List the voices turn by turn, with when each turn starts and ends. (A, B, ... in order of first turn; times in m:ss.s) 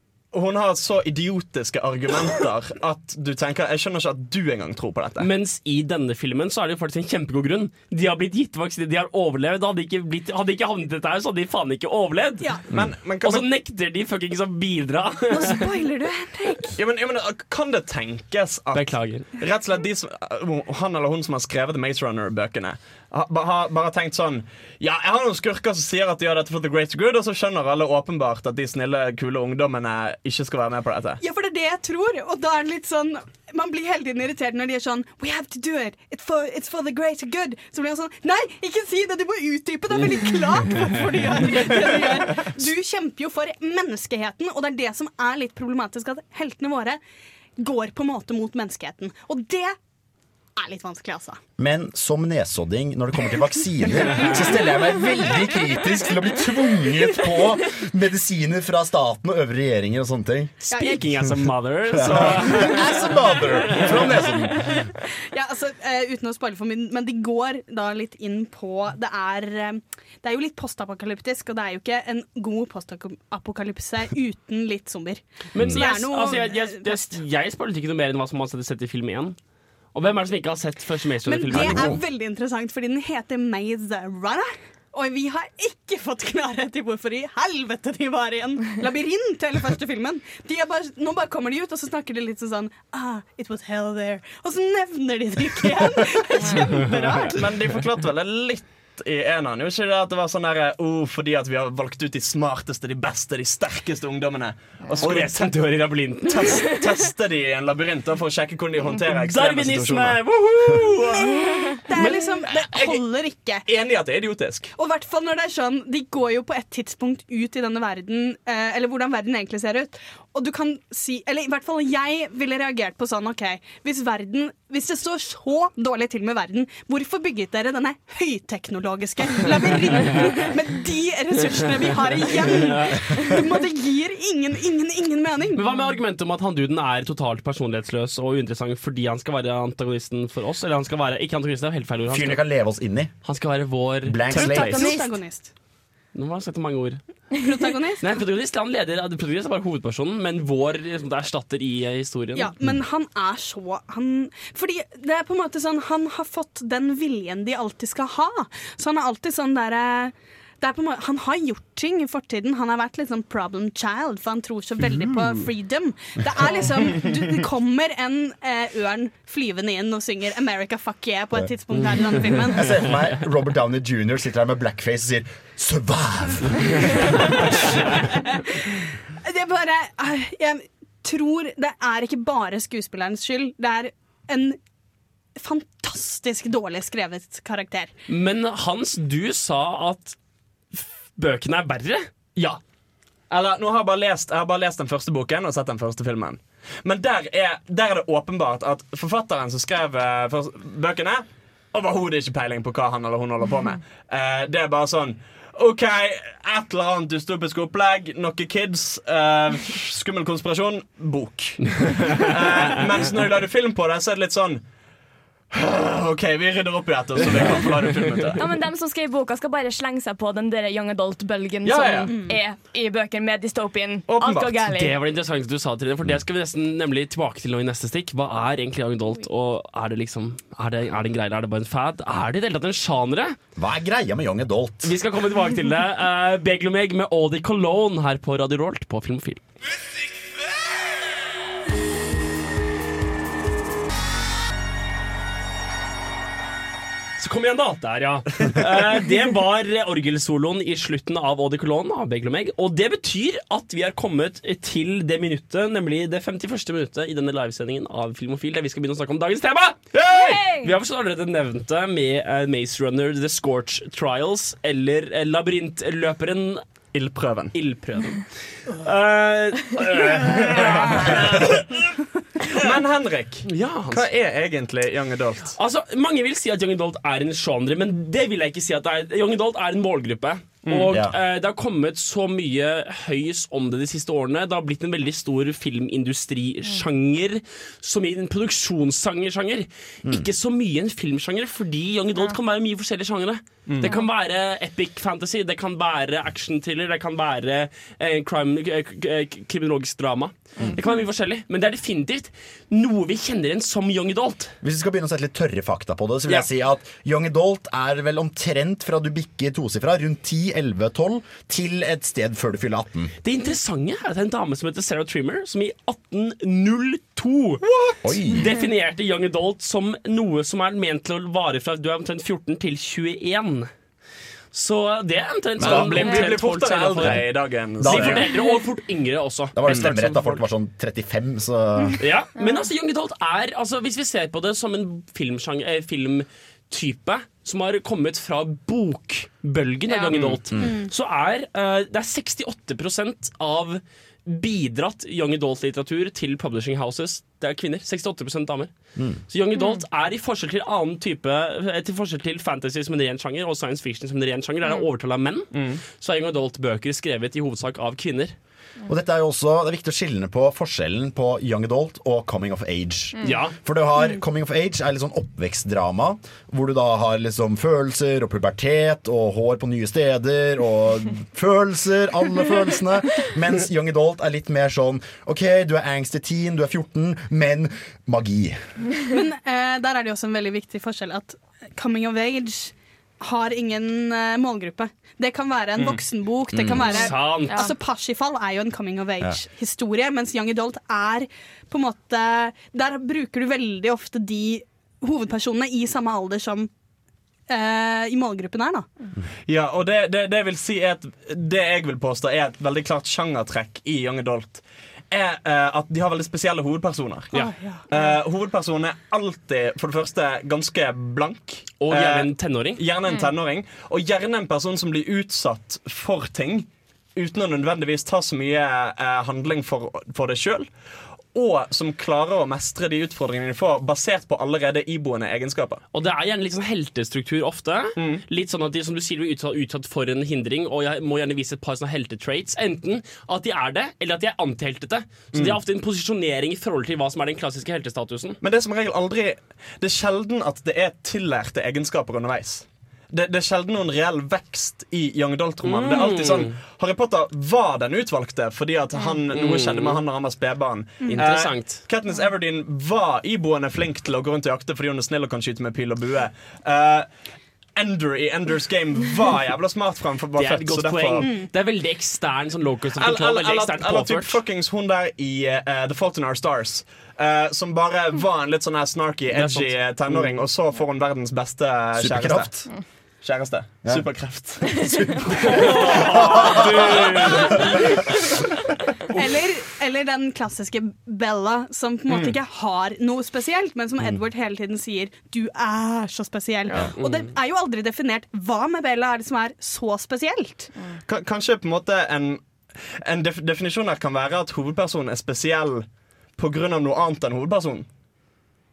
0:00.3-0:05.3 A
0:05.2-0:12.6 B
0:12.4-0:12.6 C
0:12.7-0:13.4 A
0:13.2-0:15.6 B
0:15.3-0:16.8 C
0:16.8-0:31.2 A
0:18.7-0:19.2 B
0:31.2-0:47.0 C
0:47.6-0:49.8 C
0:50.6-0:51.4 C
0:51.6-1:01.0 D
1:00.7-1:01.0 C
1:00.7-1:04.6 B
1:02.0-1:04.6 D
1:02.5-1:04.2 C
1:05.3-1:17.2 C
1:15.5-1:19.4 B
1:19.9-1:22.0 B
1:21.2-1:37.4 C
1:21.5-1:22.0 D
1:36.4-1:36.8 E
1:37.3-1:50.2 A
1:45.0-1:46.6 B
1:49.0-1:51.3 B
1:51.2-1:53.6 C
1:52.5-1:53.0 A
1:53.6-1:54.7 A
1:54.8-2:15.6 C
2:15.5-2:22.4 B
2:22.1-2:23.1 D
2:23.2-2:24.3 B
2:24.0-2:24.8 D
2:24.3-2:24.8 A
2:24.3-2:25.5 C
2:26.1-2:27.0 B
2:27.4-2:28.0 C
2:28.0-2:32.5 B
2:32.3-2:52.8 C
2:52.4-2:57.4 D
2:58.3-2:58.7 C
2:59.2-3:04.6 C
3:05.4-3:07.9 C
3:08.1-3:10.2 B
3:10.8-3:12.1 B
3:13.3-3:34.6 A
3:31.9-3:32.3 B
3:35.5-3:38.4 A
3:38.4-3:44.9 E
3:41.6-3:42.2 A
3:42.1-3:42.4 C
3:44.1-3:44.6 A
3:44.7-3:53.4 B
3:53.6-3:54.9 D
3:54.8-3:59.4 B
4:07.2-4:19.8 B
4:19.9-4:20.4 A
4:20.0-4:20.8 E
4:20.6-4:26.6 B
4:26.9-4:27.5 A
4:27.5-4:31.6 B
4:30.2-4:31.5 A
4:32.6-4:35.6 A
4:33.4-4:34.0 B
4:35.6-5:04.5 B
4:40.6-4:40.9 A
4:40.9-4:41.1 D
5:04.6-5:13.1 D
5:13.2-5:17.6 B
5:17.6-5:18.0 A
5:18.0-5:18.5 D
5:18.3-5:23.7 B
5:24.5-5:30.2 B
5:25.6-5:26.1 D
5:25.6-5:28.3 A
5:27.0-5:28.3 D
5:29.5-5:32.0 D
5:29.7-5:30.4 A
5:32.0-5:48.7 B
5:32.4-5:32.7 E
5:39.9-5:40.2 E
5:40.1-5:40.4 A
5:49.0-5:49.2 D
5:49.3-5:58.3 B
5:49.6-5:49.8 E
5:55.5-5:55.8 A
5:58.9-6:18.6 D
6:03.2-6:03.5 B
6:19.1-6:36.7 C
6:26.5-6:27.1 D
6:26.8-6:27.7 B
6:27.5-6:27.8 E
6:37.5-6:38.9 C
6:39.5-6:47.3 A
6:47.3-6:47.8 C
6:47.9-7:00.7 A
6:51.8-6:52.8 B
7:01.3-7:05.8 A
7:05.9-7:18.4 B
7:08.0-7:08.2 A
7:18.4-7:37.1 A
7:25.6-7:26.5 B
7:29.3-7:30.0 B
7:31.1-7:31.8 B
7:37.8-7:41.3 A
7:40.4-7:44.4 B
7:41.2-7:41.5 C
7:43.0-7:52.5 A
7:49.3-7:50.2 D
7:51.9-7:52.7 D
7:53.2-7:54.7 A
7:53.8-7:56.9 D
7:55.5-7:57.7 B
7:59.1-8:10.7 C
8:02.1-8:02.4 A
8:07.0-8:07.3 B
8:11.1-8:17.8 A